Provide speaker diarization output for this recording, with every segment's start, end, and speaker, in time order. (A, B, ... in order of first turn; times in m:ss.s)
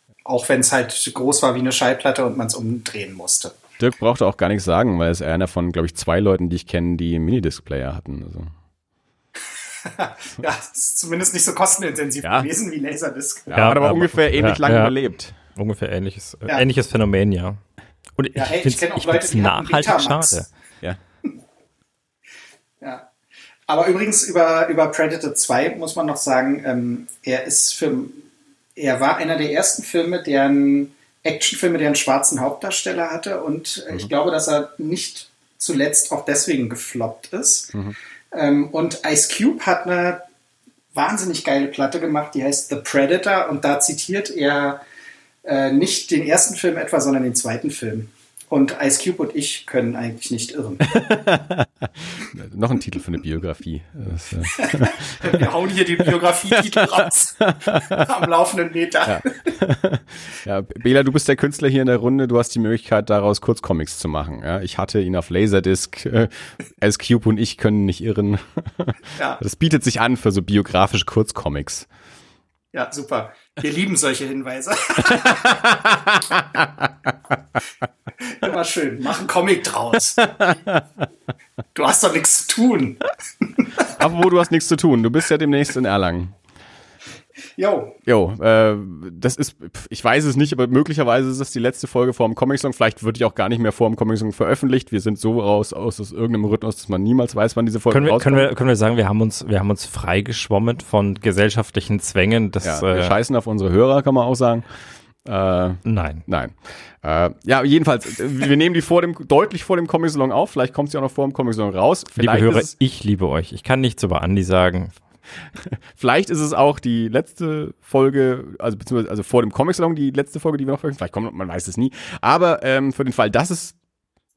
0:00.3-0:03.6 A
0:03.8-0:08.5 B
0:09.8-0:13.8 A
0:12.2-0:12.5 B
0:13.5-0:15.4 B
0:13.5-0:17.6 C
0:18.2-0:20.5 C
0:18.3-0:20.4 A
0:22.8-0:23.1 A
0:23.7-0:37.8 A
0:38.3-0:40.2 A
0:40.9-0:44.8 A
0:45.4-0:50.9 A
0:50.9-0:55.5 B
0:54.5-0:59.6 A
0:56.5-0:58.0 B
0:59.1-1:11.9 B
1:09.2-1:09.4 A
1:12.7-1:15.6 A
1:15.1-1:16.9 B
1:18.2-1:20.4 A
1:20.4-1:20.8 B
1:21.8-1:23.7 A
1:23.8-1:26.4 B
1:27.6-1:28.0 A
1:28.1-1:38.5 B
1:37.9-1:43.2 C
1:42.6-1:44.7 B
1:45.2-1:52.7 B
1:45.8-1:46.2 C
1:52.2-1:55.0 C
1:55.6-2:03.8 B